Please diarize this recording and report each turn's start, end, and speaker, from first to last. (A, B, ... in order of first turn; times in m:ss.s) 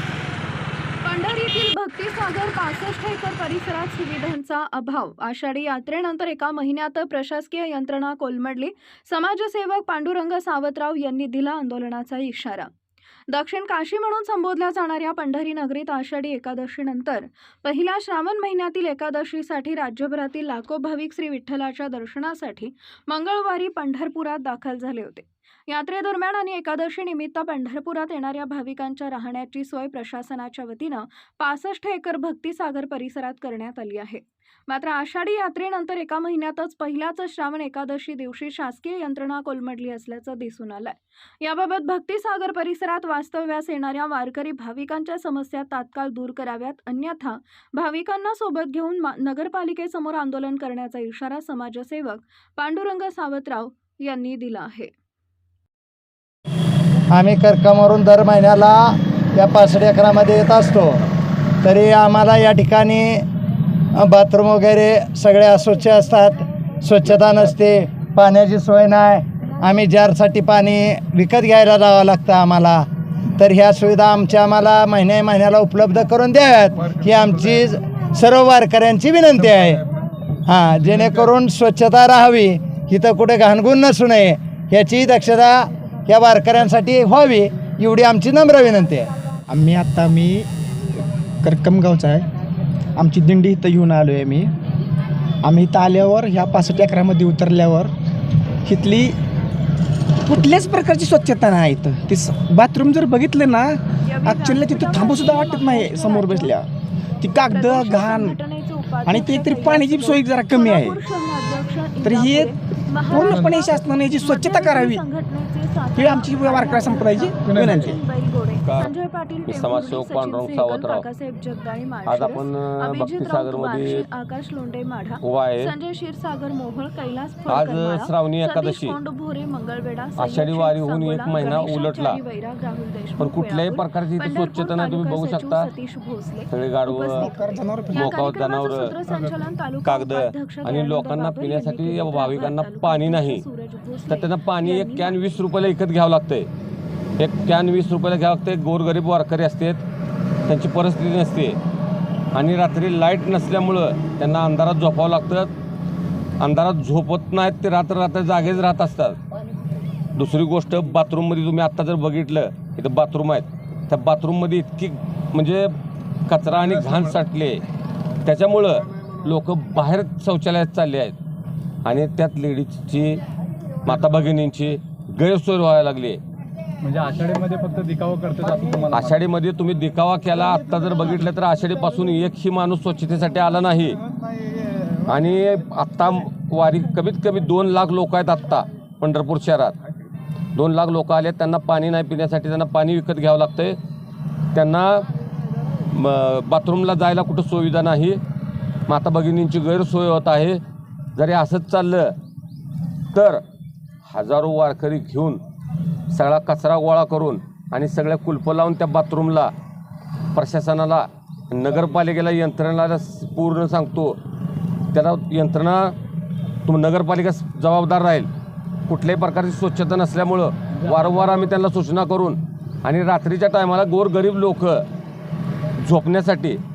0:01.0-0:12.7 A
0:13.3-0:54.9 A
0:57.1-1:01.0 B
1:01.6-1:03.2 B
1:04.0-1:12.9 B
1:13.4-1:19.8 B
1:20.5-1:29.1 B
1:29.5-1:30.5 C
1:31.4-1:32.3 C
1:33.0-1:34.5 C
1:35.4-1:37.9 C
1:38.6-1:39.2 C
1:40.3-1:46.7 C
1:44.0-1:46.6 A
1:47.2-1:48.4 C
1:47.4-2:25.2 A
1:49.0-1:51.0 C
1:52.0-1:52.5 C
1:53.1-1:55.0 C
1:56.0-1:58.0 C
1:57.4-1:57.7 D
1:58.6-1:58.9 E
1:59.5-2:01.0 E
2:02.1-2:04.0 E
2:05.2-2:05.7 E
2:07.5-2:09.0 E
2:10.2-2:12.2 E
2:13.2-2:15.7 E
2:16.5-2:17.3 E
2:17.2-2:18.1 C
2:17.9-2:18.9 E
2:19.8-2:23.4 E
2:24.1-2:26.5 E
2:27.2-2:29.8 E
2:30.4-2:31.6 E
2:32.3-2:35.5 E
2:36.4-2:39.2 E
2:40.2-2:45.7 E
2:46.3-2:47.6 E
2:48.2-2:51.2 E
2:51.8-2:53.2 E
2:53.8-2:56.2 E
2:56.8-2:59.2 D
2:58.9-3:04.0 E
3:05.1-3:09.8 E
3:10.5-3:13.8 E
3:14.5-3:15.1 E
3:15.9-3:18.2 E
3:18.9-3:20.6 E
3:21.2-3:22.1 E
3:23.1-3:23.4 E
3:24.1-3:25.4 E
3:26.1-3:29.5 E
3:30.3-3:34.2 E
3:34.9-3:35.9 E
3:36.6-3:38.3 E
3:38.9-3:44.8 E
3:40.8-3:41.4 D
3:45.8-3:46.6 E